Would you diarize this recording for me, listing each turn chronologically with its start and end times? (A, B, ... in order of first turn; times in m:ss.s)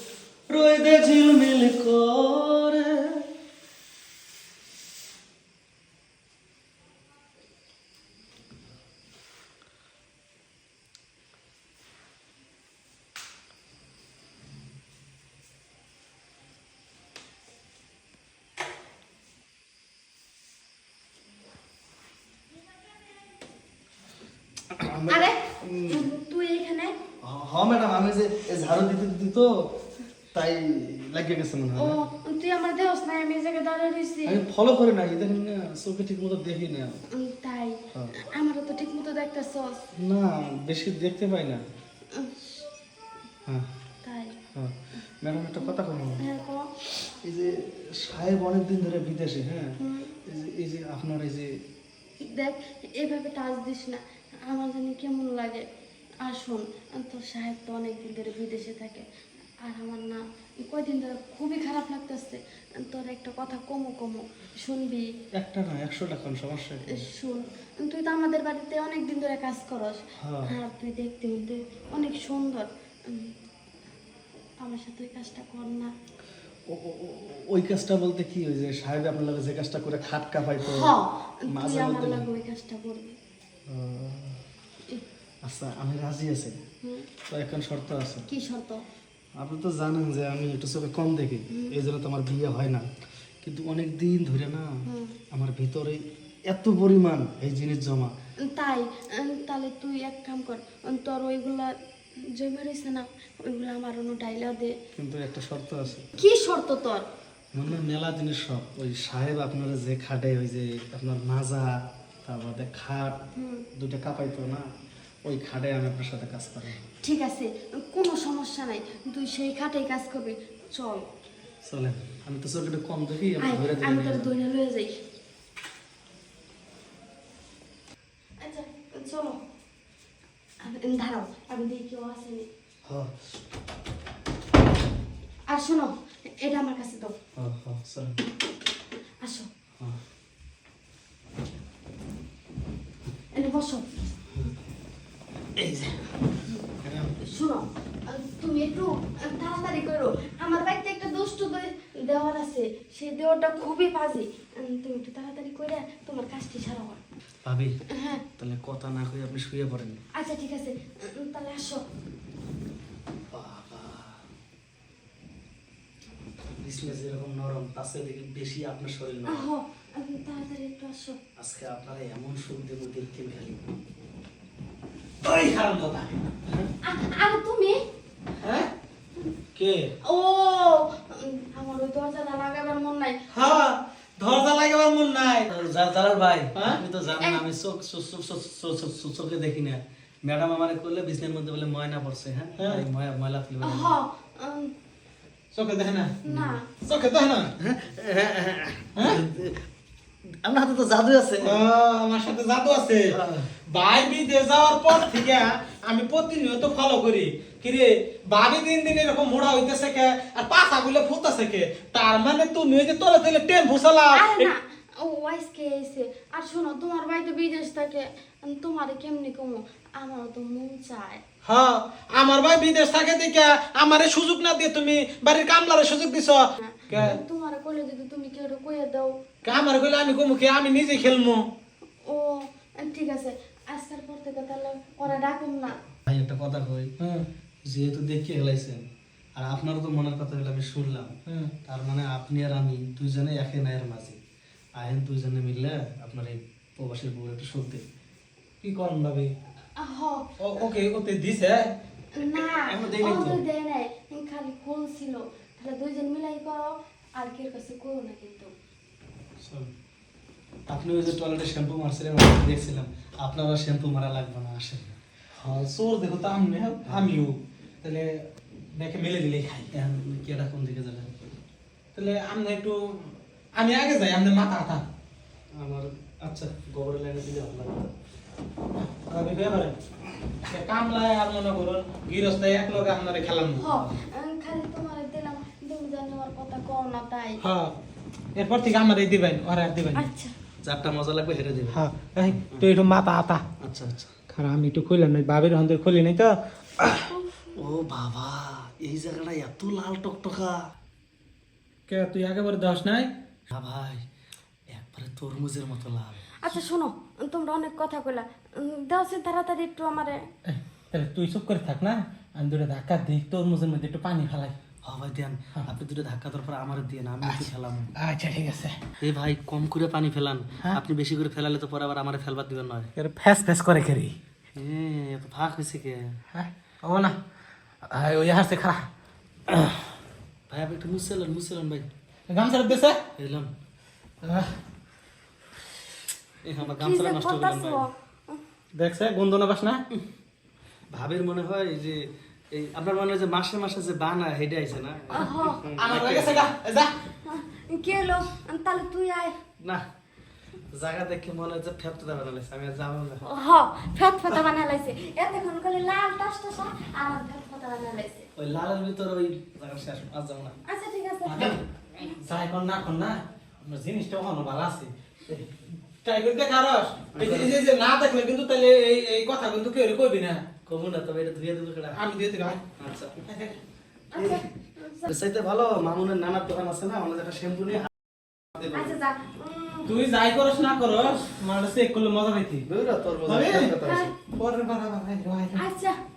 0:00.5-0:03.3 A
0:24.7-0:26.1 A
0:25.1-0:26.9 B
0:27.2-0:29.8 A
0:30.3-0:32.0 A
0:31.8-0:34.4 B
0:34.3-0:36.9 A
0:37.1-0:39.8 B
0:40.0-0:41.6 A
0:42.1-0:42.5 B
0:44.0-0:44.3 B
0:44.5-0:46.2 A
0:46.2-0:46.7 B
0:47.2-0:51.5 A
0:49.8-0:50.2 B
0:52.2-0:55.6 B
0:56.2-0:59.0 B
0:59.6-1:05.1 B
1:05.4-1:07.1 A
1:06.9-1:13.3 B
1:10.2-1:10.5 A
1:14.6-1:15.9 B
1:16.7-1:21.0 A
1:20.6-1:23.2 B
1:21.5-1:22.3 A
1:23.7-1:24.4 A
1:25.4-1:26.6 A
1:26.8-1:27.1 B
1:27.3-1:28.3 A
1:28.3-1:28.8 B
1:29.4-1:32.9 A
1:31.5-1:31.8 B
1:33.4-1:38.1 A
1:34.9-1:35.2 B
1:38.5-1:41.8 B
1:42.3-1:44.8 B
1:45.0-1:46.1 A
1:46.1-1:47.1 B
1:47.5-1:53.2 A
1:53.4-1:53.7 B
1:53.7-1:54.7 A
1:55.2-1:56.8 A
1:57.0-2:01.1 B
2:01.6-2:04.3 A
2:03.4-2:05.0 B
2:08.4-2:09.4 B
2:10.6-2:12.5 B
2:12.8-2:13.1 A
2:15.5-2:17.1 B
2:17.4-2:18.2 A
2:19.2-2:19.5 B
2:23.3-2:24.0 B
2:25.6-2:26.1 A
2:26.8-2:27.2 A
2:27.2-2:37.0 B
2:37.4-2:37.8 A
2:37.9-2:38.2 B
2:38.4-2:40.0 A
2:40.1-2:41.8 B
2:43.3-2:44.2 A
2:46.6-2:49.5 A
2:49.3-2:51.2 B
2:51.4-2:53.6 A
2:55.2-2:56.1 C
2:56.8-2:57.8 B
2:58.4-2:58.7 C
2:59.6-2:59.9 C
3:00.0-3:03.2 B
3:03.3-3:05.5 C
3:05.5-3:14.0 A
3:06.6-3:06.8 C
3:12.6-3:12.8 C
3:13.6-3:14.7 B
3:15.5-3:16.2 C
3:16.2-3:16.7 B
3:16.3-3:16.6 A
3:16.8-3:17.5 C
3:17.6-3:19.6 A
3:19.0-3:19.2 C
3:20.4-3:21.6 A
3:21.4-3:23.2 C
3:23.1-3:23.5 A
3:23.7-3:34.5 C
3:34.1-3:41.2 B
3:41.4-3:47.2 C
3:46.6-3:49.1 B
3:49.4-3:51.5 C
3:52.0-3:55.8 B
3:56.1-3:56.9 A
3:57.0-3:57.3 C
3:57.6-3:58.8 A
3:59.4-4:04.2 A
4:01.3-4:01.5 C
4:04.8-4:07.8 A
4:08.6-4:09.3 C
4:09.8-4:10.3 B
4:10.4-4:11.7 C
4:12.2-4:18.5 B
4:12.2-4:13.4 A
4:19.4-4:19.7 A
4:20.7-4:25.0 A
4:25.4-4:28.2 C
4:26.9-4:27.2 A
4:28.7-4:29.7 C
4:29.7-4:31.2 A
4:32.0-4:33.0 C
4:33.6-4:34.8 C
4:35.6-4:37.9 A
4:38.8-4:39.8 C
4:40.5-4:43.8 C
4:43.6-4:47.4 B
4:47.4-4:47.7 C
4:48.4-4:50.1 C
4:49.9-4:50.4 B
4:50.6-4:51.8 A
4:51.7-4:53.4 C
4:53.6-4:54.1 A
4:54.3-4:56.4 C
4:57.1-4:57.5 B
4:57.6-5:00.6 A
5:01.9-5:03.1 C
5:03.5-5:04.0 A
5:04.7-5:06.4 A
5:06.4-5:10.2 B
5:10.5-5:14.6 C
5:14.8-5:17.9 A
5:17.2-5:18.8 C
5:19.0-5:22.9 A
5:23.0-5:24.2 C
5:24.6-5:26.2 A
5:26.3-5:27.2 C
5:27.9-5:28.9 C
5:29.5-5:29.8 A
5:30.5-5:31.9 A
5:32.3-5:33.0 C
5:33.2-5:33.5 A
5:34.2-5:34.6 C
5:36.4-5:37.9 A
5:36.8-5:38.4 B
5:38.7-5:39.8 C
5:40.9-5:46.5 A
5:45.1-5:45.6 B
5:45.8-5:46.9 C
5:47.2-5:49.4 B
5:50.7-5:53.2 A
5:53.2-5:58.3 B
5:58.4-6:00.6 A
6:00.7-6:02.1 B
6:01.3-6:01.6 C
6:02.2-6:05.5 C
6:06.0-6:10.4 C
6:07.1-6:07.6 A
6:10.7-6:12.0 A
6:12.0-6:12.6 C
6:12.8-6:13.2 A
6:13.2-6:13.6 C
6:14.1-6:15.1 B
6:14.2-6:14.4 A
6:15.1-6:19.0 A
6:18.7-6:19.9 B
6:19.9-6:22.7 C
6:22.7-6:24.1 A
6:23.2-6:23.8 C
6:23.8-6:24.1 B
6:24.3-6:25.6 C
6:25.6-6:26.0 B